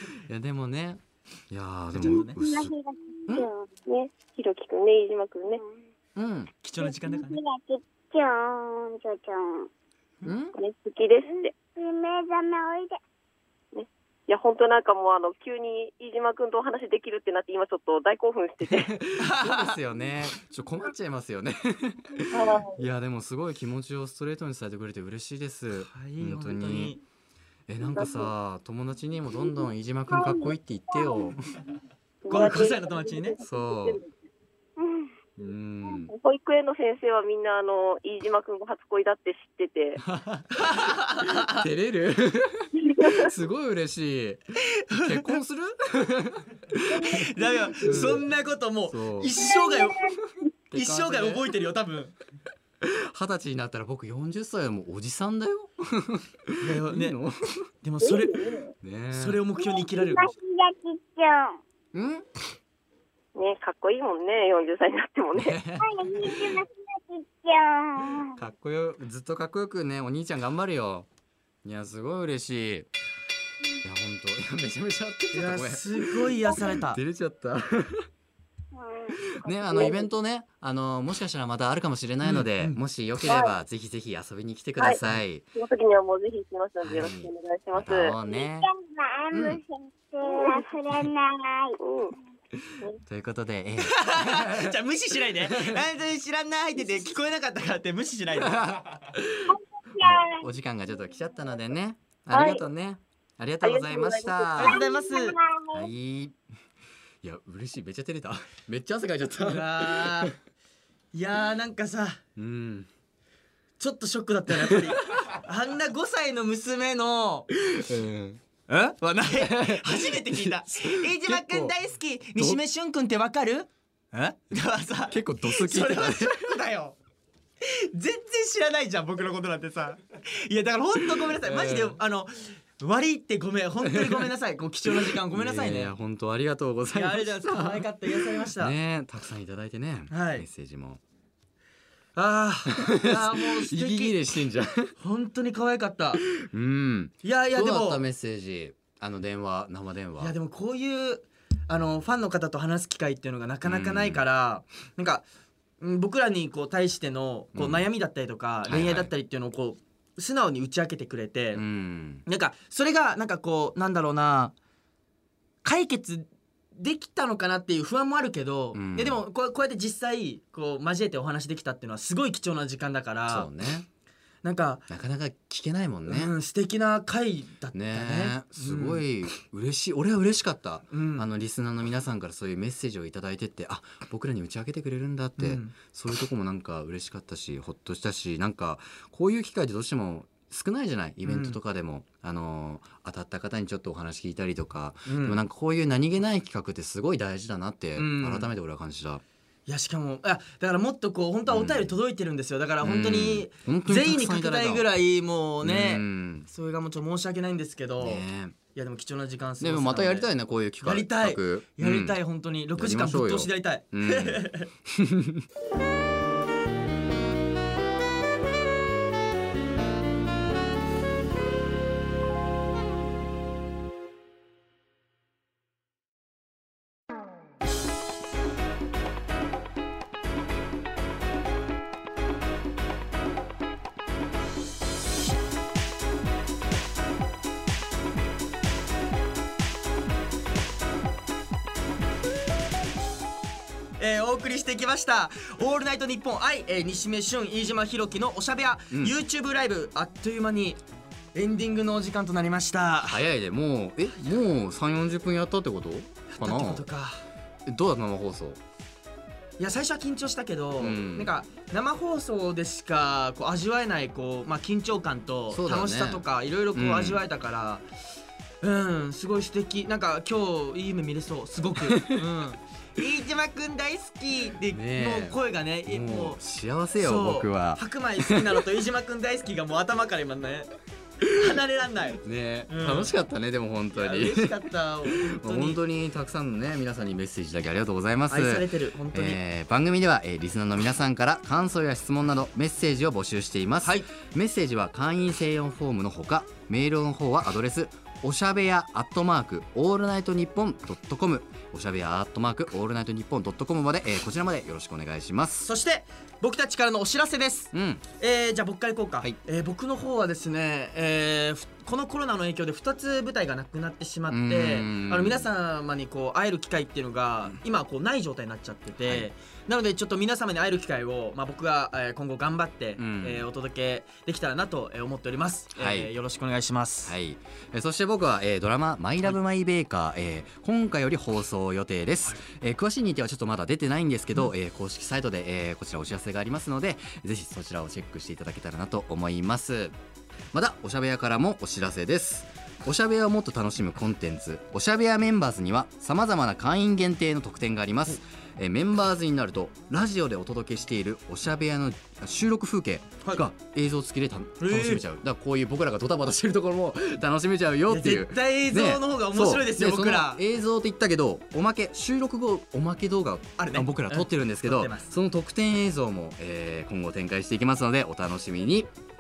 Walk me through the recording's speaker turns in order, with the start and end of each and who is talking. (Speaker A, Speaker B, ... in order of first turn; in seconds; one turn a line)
Speaker A: 0.3-2.7
Speaker B: 1.9-2.4
Speaker C: 2.4-3.7
Speaker D: 3.9-5.6
Speaker A: 6.2-6.5
Speaker B: 6.6-7.4
Speaker C: 6.8-9.7
Speaker A: 10.2-10.5
Speaker D: 10.6-11.5
Speaker C: 11.3-13.0
Speaker D: 13.7-18.9
Speaker A: 18.6-26.9
Speaker B: 19.2-19.8
Speaker D: 22.3-22.9
Speaker B: 25.9-27.0
Speaker A: 27.7-31.6
Speaker D: 27.9-28.3
Speaker C: 30.1-31.3
Speaker D: 32.2-34.1
Speaker B: 32.3-33.4
Speaker A: 33.4-34.0
Speaker C: 34.8-35.1
Speaker A: 35.4-36.1
Speaker D: 36.1-40.0
Speaker A: 40.1-44.4
Speaker B: 40.5-41.6
Speaker D: 42.8-43.3
Speaker B: 44.8-45.4
Speaker A: 44.9-48.3
Speaker B: 47.1-50.1
Speaker A: 48.9-49.4
Speaker C: 49.4-50.1
Speaker A: 50.7-51.5
Speaker B: 50.7-52.1
Speaker A: 52.8-57.6
Speaker B: 56.6-57.2
Speaker B: 57.8-58.4
Speaker D: 58.0-58.7
Speaker A: 58.8-59.5
Speaker B: 59.1-60.3
Speaker C: 59.6-61.6
Speaker A: 61.9-62.3
Speaker D: 63.4-65.6
Speaker A: 65.4-66.6
Speaker C: 65.8-68.4
Speaker A: 68.3-71.1
Speaker A: 71.6-72.9
Speaker A: 73.8-78.1
Speaker B: 75.3-77.0
Speaker C: 78.7-79.2
Speaker A: 79.4-85.5
Speaker D: 79.4-80.1
Speaker B: 82.2-82.8
Speaker D: 83.3-83.5
Speaker D: 85.5-88.1
Speaker A: 86.8-88.7
Speaker C: 88.2-91.8
Speaker A: 89.3-89.6
Speaker D: 90.3-90.7
Speaker D: 91.8-92.1
Speaker A: 93.0-94.8
Speaker B: 93.9-99.1
Speaker A: 95.4-95.8
Speaker A: 98.4-104.8
Speaker C: 99.5-101.3
Speaker D: 102.3-102.6
Speaker D: 103.6-104.5
Speaker B: 104.6-105.4
Speaker C: 104.7-105.9
Speaker A: 105.7-106.4
Speaker A: 107.2-110.3
Speaker B: 109.4-110.4
Speaker B: 111.1-112.2
Speaker A: 112.4-112.9
Speaker B: 113.8-117.5
Speaker A: 117.6-118.4
Speaker B: 118.7-127.0
Speaker A: 119.3-121.7
Speaker A: 125.1-126.5
Speaker B: 127.6-135.9
Speaker A: 131.2-132.0
Speaker A: 133.8-134.3
Speaker A: 134.9-141.0
Speaker B: 136.9-138.8
Speaker B: 140.1-140.5
Speaker B: 142.2-144.2
Speaker A: 142.8-144.9
Speaker B: 145.0-146.3
Speaker A: 146.3-150.4
Speaker B: 147.2-148.0
Speaker B: 150.2-155.3
Speaker A: 153.7-154.2
Speaker B: 155.8-161.6
Speaker A: 157.6-157.9
Speaker A: 158.7-159.1
Speaker A: 161.6-162.2
Speaker B: 162.3-164.5
Speaker B: 165.6-173.5
Speaker A: 168.7-169.2
Speaker A: 173.3-173.9
Speaker B: 174.4-174.9
Speaker A: 174.9-176.3
Speaker B: 176.1-179.1
Speaker A: 177.7-199.2
Speaker B: 180.9-181.3
Speaker B: 185.4-185.7
Speaker B: 191.2-191.6
Speaker B: 195.1-195.4
Speaker B: 198.0-198.5
Speaker B: 199.7-208.2
Speaker A: 201.5-201.9
Speaker A: 202.8-204.8
Speaker A: 205.6-206.5
Speaker A: 208.0-208.6
Speaker B: 208.8-210.3
Speaker A: 209.6-212.2
Speaker B: 210.8-214.7
Speaker A: 212.8-215.4
Speaker B: 244.0-250.8
Speaker B: 251.3-253.2
Speaker A: 253.0-256.9
Speaker B: 256.3-257.2
Speaker A: 257.7-258.6
Speaker B: 259.6-267.8
Speaker A: 260.8-261.3
Speaker A: 265.5-267.2
Speaker B: 268.6-276.4
Speaker A: 271.9-272.2
Speaker A: 274.7-278.6
Speaker B: 277.0-280.7
Speaker B: 281.2-283.1
Speaker A: 282.2-305.7
Speaker B: 283.9-285.8
Speaker B: 288.3-289.4
Speaker B: 305.6-327.1
Speaker A: 307.7-308.1
Speaker A: 314.3-315.5
Speaker A: 319.0-319.3
Speaker A: 323.0-323.5
Speaker A: 325.8-326.1
Speaker A: 327.1-339.9
Speaker A: 340.5-368.9
Speaker B: 354.6-355.0
Speaker B: 357.9-360.4
Speaker B: 363.6-365.1